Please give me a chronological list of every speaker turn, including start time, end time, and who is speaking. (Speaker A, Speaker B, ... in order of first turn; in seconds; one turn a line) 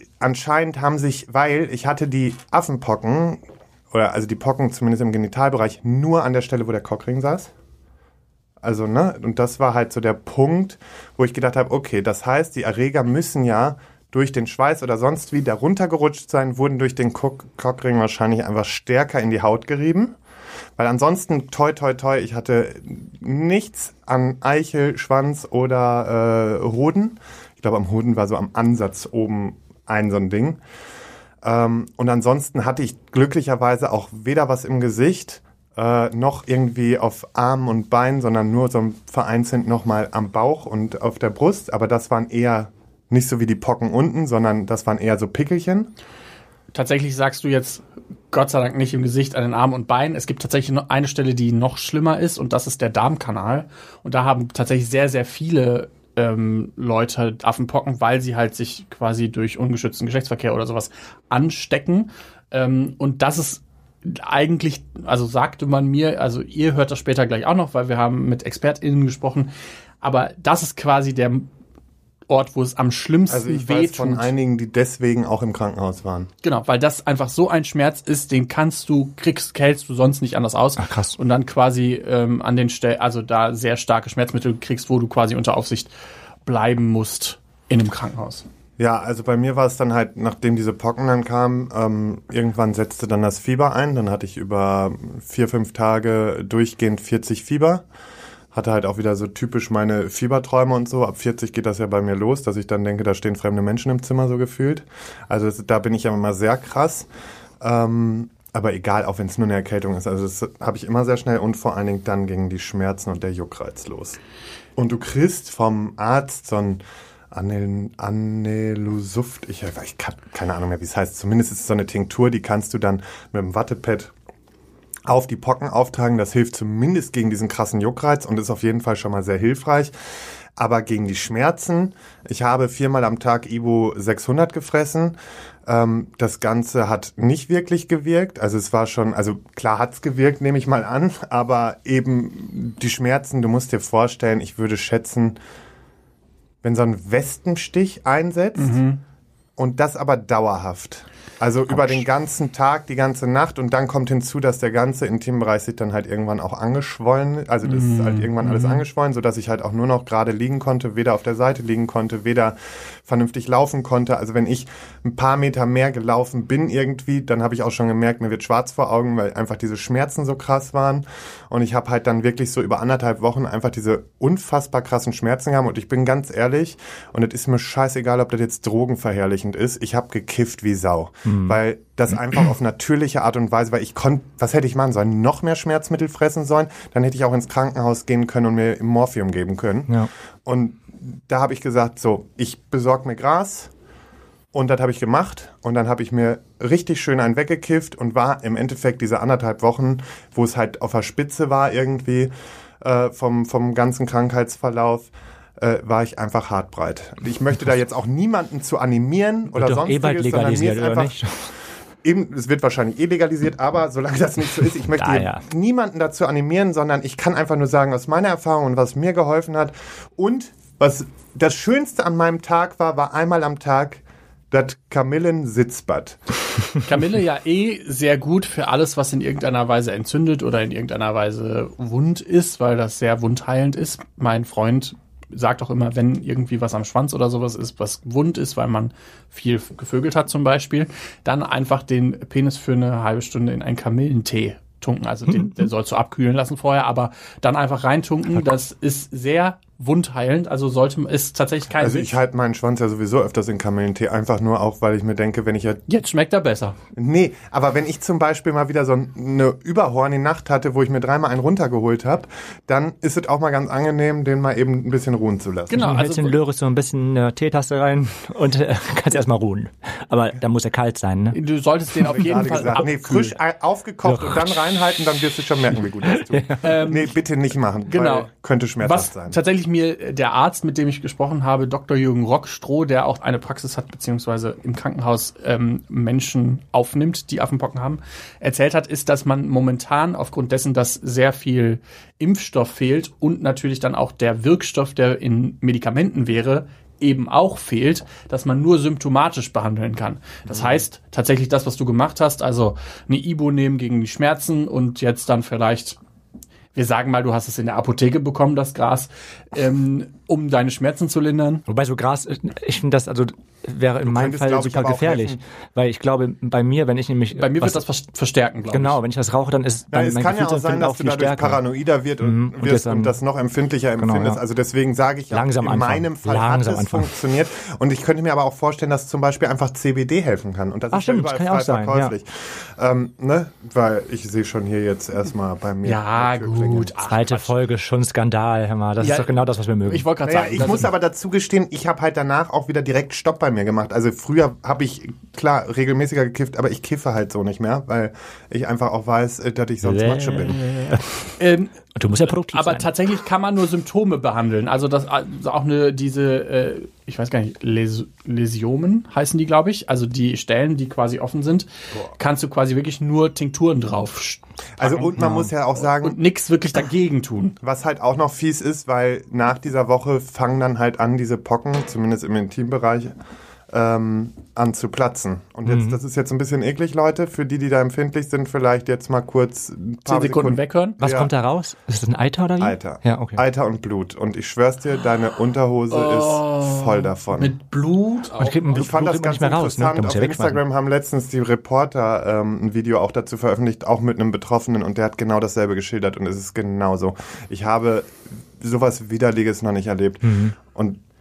Speaker A: 0.2-7.5
Speaker A: 8.6-20.1
Speaker A: 20.8-30.6
Speaker A: 31.4-45.9
Speaker B: 46.7-69.5
Speaker B: 70.0-71.5
Speaker B: 72.3-74.3
Speaker A: 73.3-76.3
Speaker B: 76.4-85.9
Speaker C: 80.8-81.2
Speaker B: 86.5-88.4
Speaker A: 88.8-97.8
Speaker A: 98.5-107.1
Speaker A: 107.6-114.2
Speaker A: 114.8-124.1
Speaker A: 125.1-129.9
Speaker A: 130.6-145.4
Speaker A: 146.6-148.8
Speaker B: 148.6-149.0
Speaker A: 149.6-193.7
Speaker B: 157.6-158.8
Speaker C: 181.3-181.6
Speaker A: 194.5-211.2
Speaker C: 209.5-211.5
Speaker A: 212.0-226.2
Speaker C: 214.9-215.4
Speaker B: 226.8-252.1
Speaker A: 251.8-255.8
Speaker B: 255.9-256.8
Speaker A: 256.9-265.9
Speaker B: 265.7-266.4
Speaker C: 265.7-271.4
Speaker B: 271.3-273.3
Speaker C: 272.0-272.8
Speaker A: 272.1-279.4
Speaker C: 274.0-274.6
Speaker C: 276.0-276.6
Speaker B: 276.6-277.1
Speaker B: 277.9-278.3
Speaker B: 278.8-306.0
Speaker A: 300.5-300.8
Speaker B: 306.7-311.6
Speaker C: 311.7-317.8
Speaker A: 314.0-315.4
Speaker B: 317.3-319.0
Speaker C: 318.7-321.6
Speaker A: 319.9-336.9
Speaker C: 322.2-323.1
Speaker C: 324.0-324.4
Speaker C: 325.3-327.1
Speaker C: 330.9-332.1
Speaker B: 335.8-337.5
Speaker C: 337.0-340.8
Speaker B: 339.0-340.9
Speaker A: 340.2-350.6
Speaker C: 349.8-351.3
Speaker B: 351.4-351.7
Speaker C: 351.9-352.9
Speaker B: 352.5-367.6
Speaker A: 364.8-366.2
Speaker A: 367.6-373.1
Speaker A: 373.7-381.3
Speaker C: 375.6-376.0
Speaker B: 380.1-381.0
Speaker C: 381.0-383.4
Speaker A: 382.6-387.6
Speaker B: 385.9-388.6
Speaker C: 388.4-390.6
Speaker A: 388.7-401.0
Speaker C: 400.2-400.6